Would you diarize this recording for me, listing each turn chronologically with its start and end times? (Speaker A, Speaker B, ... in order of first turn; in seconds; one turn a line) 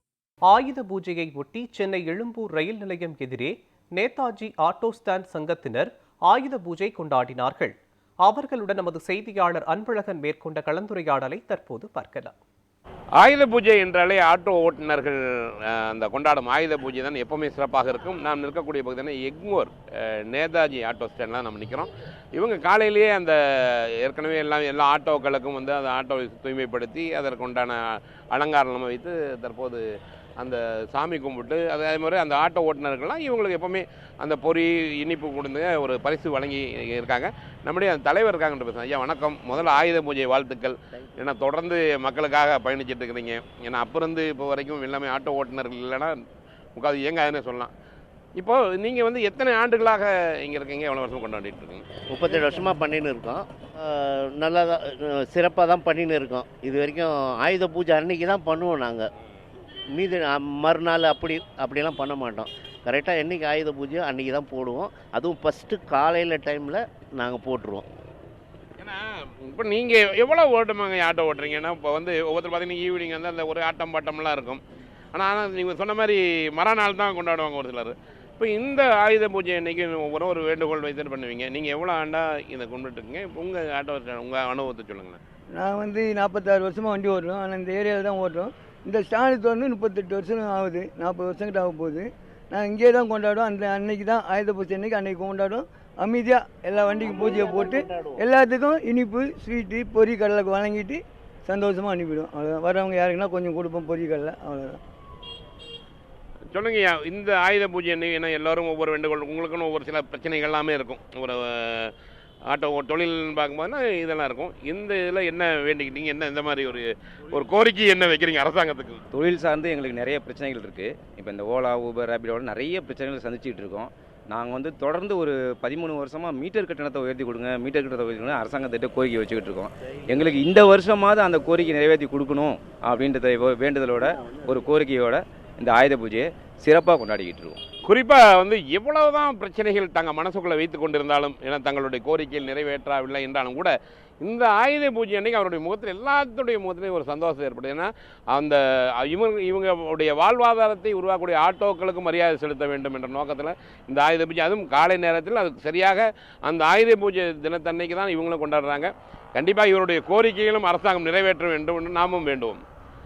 Speaker A: 0.5-12.3
Speaker B: 13.2-29.8
Speaker B: 30.4-46.1
Speaker B: 46.8-47.7
Speaker B: 48.4-51.8
Speaker C: 52.1-59.1
Speaker C: 59.9-67.8
Speaker B: 68.8-74.6
Speaker B: 75.1-85.2
Speaker D: 85.5-104.8
Speaker B: 106.5-111.9
Speaker B: 112.5-119.0
Speaker E: 119.1-137.6
Speaker B: 137.8-162.6